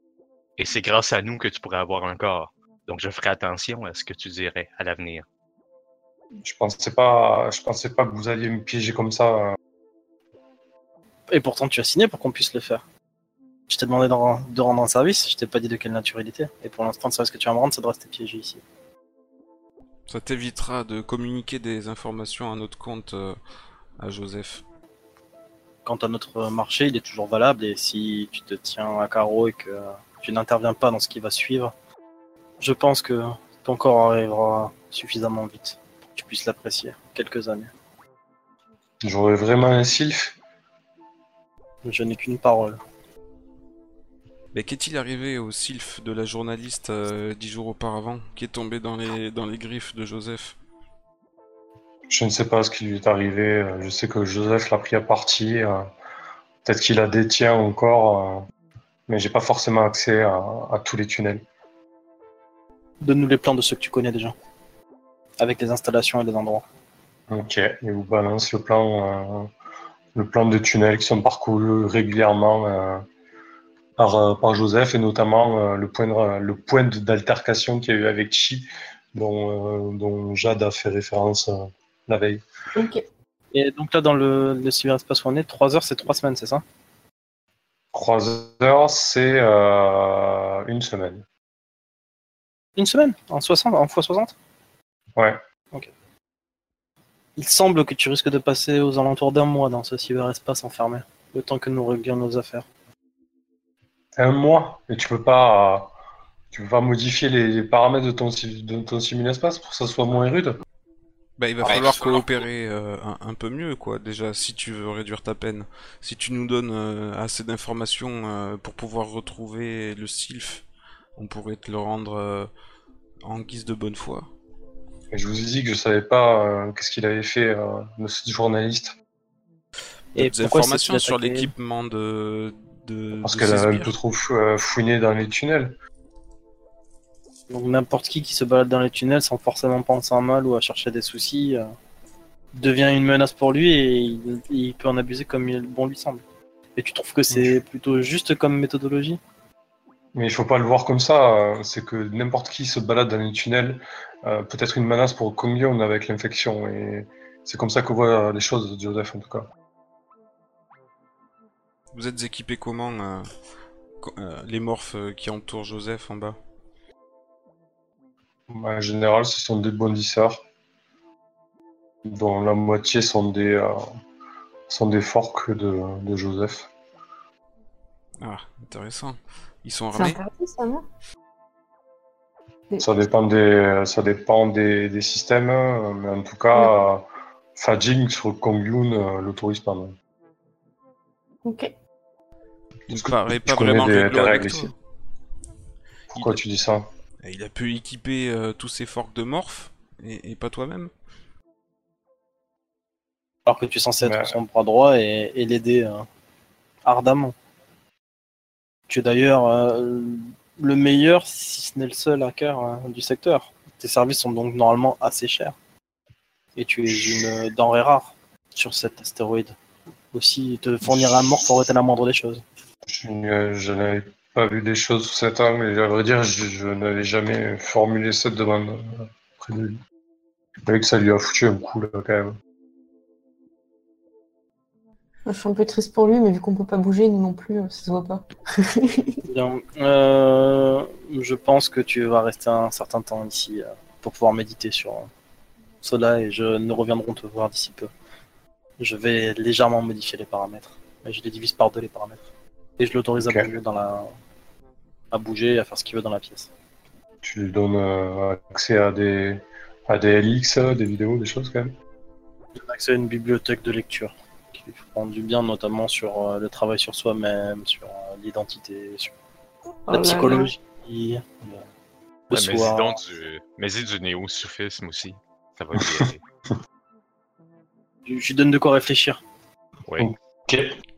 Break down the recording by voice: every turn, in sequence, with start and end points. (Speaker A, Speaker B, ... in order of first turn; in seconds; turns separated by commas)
Speaker A: 0.6-5.2, Speaker B: 6.4-9.6, Speaker C: 11.3-12.8, Speaker C: 13.7-18.6, Speaker D: 20.1-23.4, Speaker D: 24.0-24.6, Speaker C: 25.9-31.7, Speaker C: 32.6-37.7, Speaker B: 39.0-40.4, Speaker C: 41.8-42.8, Speaker D: 44.5-50.6, Speaker B: 52.1-55.9, Speaker B: 56.6-58.5, Speaker B: 59.1-61.5, Speaker C: 63.0-64.3, Speaker C: 65.4-66.7, Speaker B: 67.3-69.5, Speaker B: 70.2-73.1, Speaker B: 74.0-82.4, Speaker E: 82.8-83.0, Speaker C: 83.5-86.6, Speaker B: 87.9-91.2, Speaker C: 92.8-94.3, Speaker B: 95.2-95.4, Speaker C: 97.4-102.7, Speaker B: 104.2-106.0, Speaker B: 106.5-110.6, Speaker D: 111.4-120.7, Speaker A: 111.7-112.2, Speaker C: 111.7-112.1, Speaker D: 121.2-122.5, Speaker D: 123.2-124.3, Speaker B: 125.1-128.9, Speaker D: 130.2-133.9, Speaker C: 130.2-131.5, Speaker B: 133.2-135.8, Speaker C: 137.5-141.7, Speaker C: 142.5-146.2, Speaker C: 146.8-149.2, Speaker B: 147.3-147.6, Speaker B: 150.2-159.5, Speaker D: 161.9-163.3, Speaker D: 164.0-166.4, Speaker B: 168.5-170.4, Speaker B: 172.1-173.8, Speaker B: 174.7-176.7, Speaker D: 178.2-180.2, Speaker E: 179.9-180.8, Speaker B: 182.8-189.9, Speaker E: 191.4-191.7, Speaker B: 192.9-194.7, Speaker D: 192.9-194.7, Speaker B: 196.1-196.9, Speaker D: 197.2-200.9, Speaker C: 203.5-206.1, Speaker B: 204.0-204.4, Speaker C: 206.8-207.3, Speaker C: 208.9-215.6, Speaker C: 216.6-219.6, Speaker B: 216.9-217.3, Speaker C: 220.1-222.4, Speaker B: 220.8-221.5, Speaker B: 222.9-229.8, Speaker B: 230.7-232.4, Speaker E: 235.3-239.2, Speaker C: 239.3-245.1, Speaker C: 245.8-247.9, Speaker C: 248.8-252.2, Speaker C: 252.8-254.1, Speaker B: 253.2-253.5, Speaker C: 255.1-256.5, Speaker B: 257.2-261.8, Speaker C: 262.6-269.1, Speaker E: 269.9-270.5, Speaker C: 269.9-271.6, Speaker C: 272.3-273.0, Speaker A: 272.3-276.2, Speaker B: 275.8-276.1, Speaker C: 278.1-279.2, Speaker B: 280.0-280.8